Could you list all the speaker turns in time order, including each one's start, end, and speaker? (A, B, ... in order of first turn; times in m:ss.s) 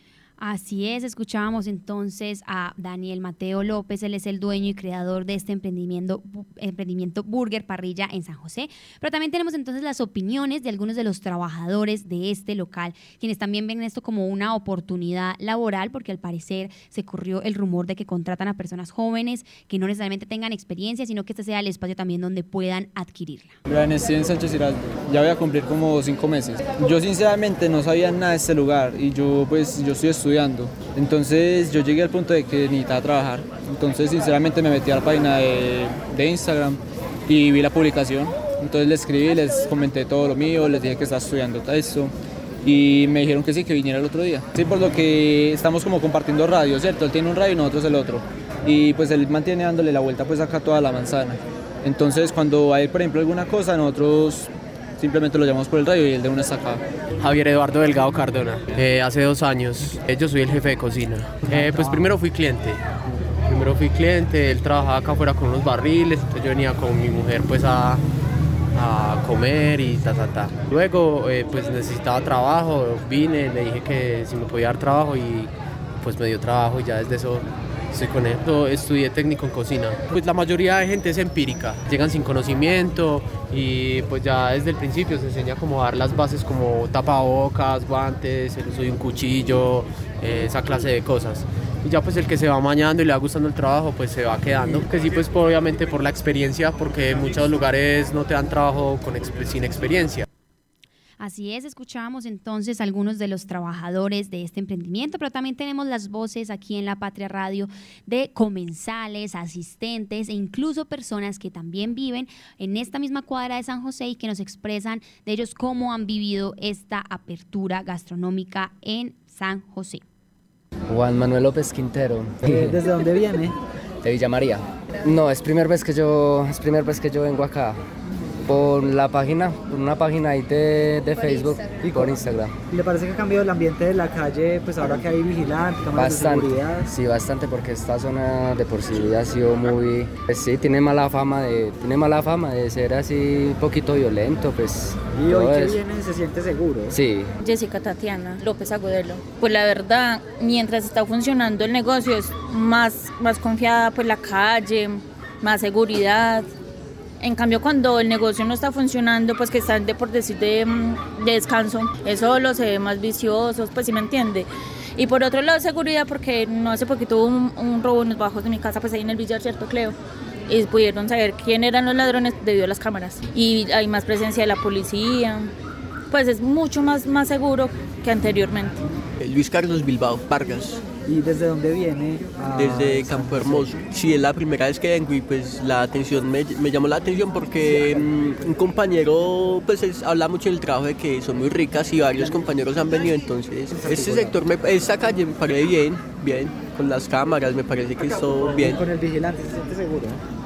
0:00.4-0:23.6 A
0:23.7-0:42.1 B
0:42.6-0:56.8 B
0:57.2-1:02.8 C
1:01.5-1:02.1 D
1:03.5-1:08.0 C
1:08.8-1:40.3 C
1:41.2-2:00.0 A
2:00.9-2:02.8 E
2:02.4-2:03.6 D
2:04.0-2:07.8 E
2:08.5-2:12.6 E
2:11.8-2:12.2 D
2:12.7-2:16.9 D
2:16.0-2:25.8 E
2:25.1-2:27.0 D
2:26.9-2:27.3 E
2:27.4-2:36.5 F
2:37.2-2:50.0 F
2:50.5-2:55.5 F
2:56.1-2:58.8 F
2:59.2-3:00.8 G
3:01.1-3:03.7 D
3:02.6-3:18.8 G
3:13.8-3:14.3 D
3:18.6-3:20.2 D